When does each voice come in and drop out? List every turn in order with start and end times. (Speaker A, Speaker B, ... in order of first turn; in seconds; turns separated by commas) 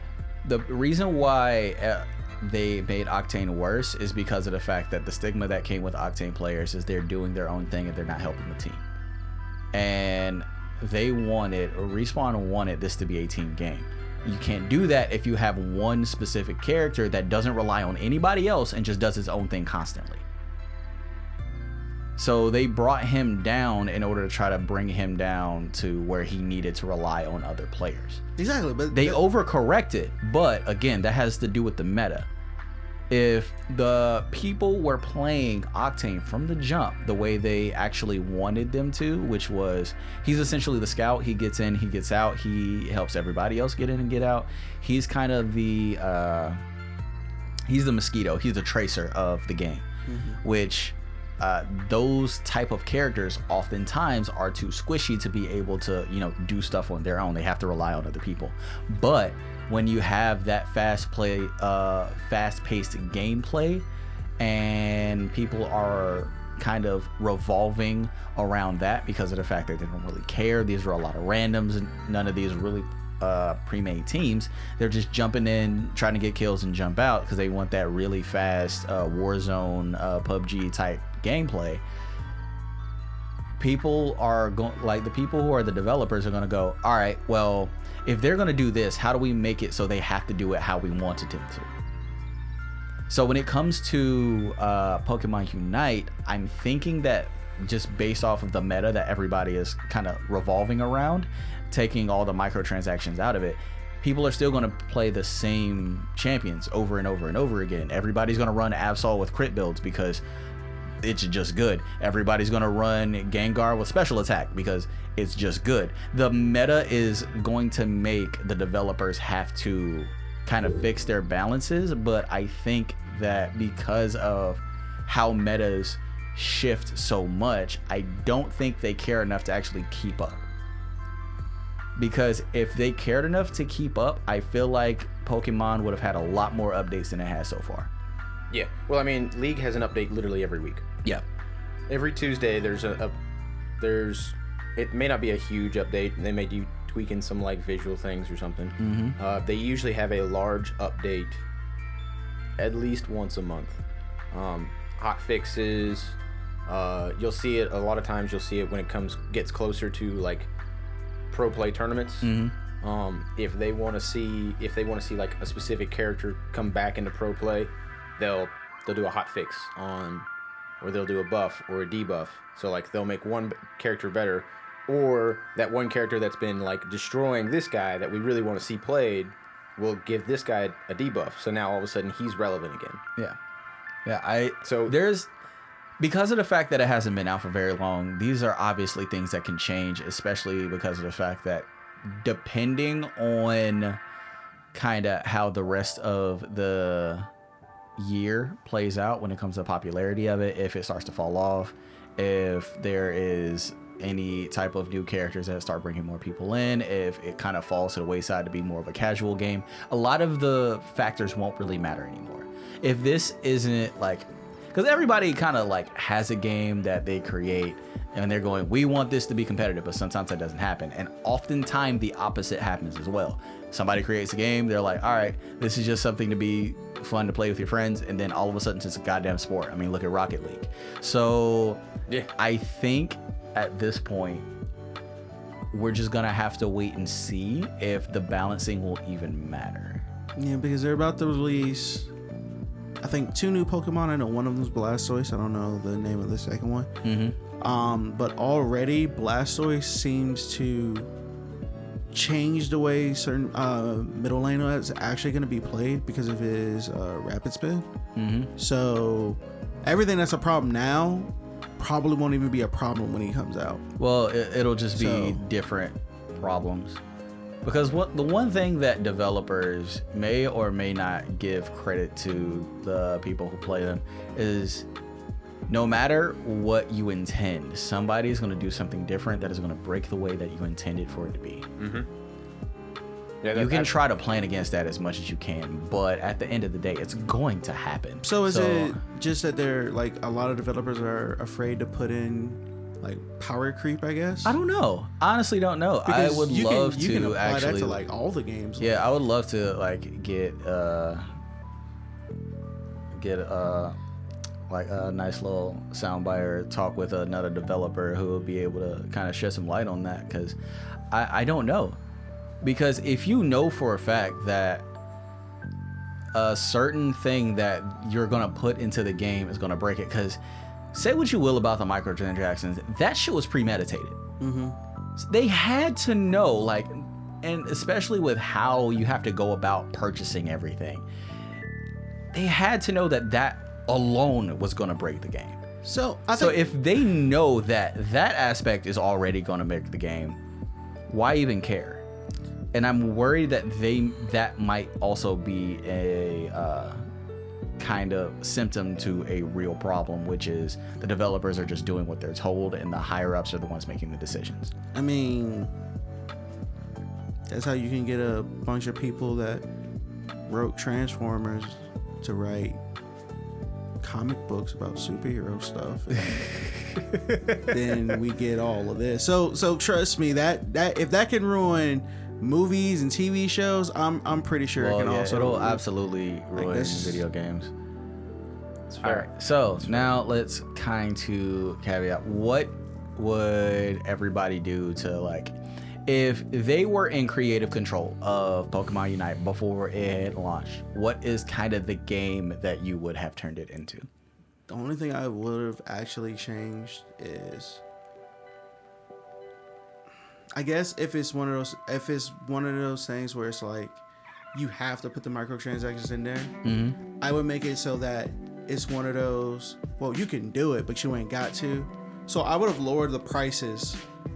Speaker A: 0.4-8.8, Speaker A: 9.7-20.2, Speaker A: 22.2-28.2, Speaker B: 28.4-29.2, Speaker A: 28.9-32.3, Speaker A: 33.1-46.6, Speaker A: 47.7-49.9, Speaker B: 50.1-50.4, Speaker A: 50.4-63.9, Speaker A: 64.4-81.8, Speaker A: 83.6-91.7, Speaker A: 93.1-110.2, Speaker A: 111.0-130.5, Speaker A: 132.0-137.9, Speaker C: 138.5-140.9, Speaker C: 141.9-143.2, Speaker C: 143.8-151.4, Speaker A: 148.8-149.2, Speaker C: 152.6-153.8, Speaker C: 154.3-160.5, Speaker C: 161.3-162.3, Speaker A: 162.2-162.5, Speaker C: 162.8-170.3, Speaker C: 170.8-183.0, Speaker A: 184.1-185.3, Speaker C: 184.6-185.0, Speaker A: 186.0-194.0, Speaker A: 194.7-197.3, Speaker A: 198.0-231.8, Speaker A: 232.4-234.5, Speaker A: 235.7-240.0, Speaker B: 240.4-242.1, Speaker B: 243.0-246.9, Speaker A: 247.0-247.4, Speaker B: 247.6-251.1, Speaker B: 252.1-257.9, Speaker A: 258.2-258.5, Speaker B: 258.6-263.8, Speaker A: 264.0-267.0, Speaker B: 265.0-265.4, Speaker A: 267.6-274.9, Speaker A: 275.7-281.7, Speaker C: 281.8-282.1, Speaker C: 283.4-283.9, Speaker A: 283.5-289.0, Speaker B: 288.2-294.6, Speaker A: 294.4-298.0, Speaker B: 296.1-298.9, Speaker A: 298.8-301.3, Speaker A: 303.1-303.9, Speaker A: 304.7-310.6, Speaker A: 311.1-312.0, Speaker A: 312.6-314.9, Speaker A: 316.3-320.4, Speaker A: 320.9-324.2, Speaker B: 324.4-324.8, Speaker A: 325.2-331.1, Speaker A: 332.3-335.6, Speaker B: 335.8-336.6, Speaker A: 336.3-340.4, Speaker A: 341.1-342.0, Speaker A: 342.7-347.0, Speaker A: 347.8-354.7, Speaker B: 354.9-355.7, Speaker B: 357.5-359.7, Speaker B: 360.5-362.8, Speaker B: 364.0-366.5, Speaker A: 366.2-367.8, Speaker B: 367.7-375.8, Speaker A: 374.8-377.7, Speaker B: 376.5-377.2, Speaker C: 378.9-379.3, Speaker A: 379.0-385.6, Speaker A: 386.1-394.1, Speaker B: 394.7-397.8, Speaker B: 400.5-404.0, Speaker B: 404.5-406.6, Speaker A: 406.6-407.0, Speaker B: 407.2-414.0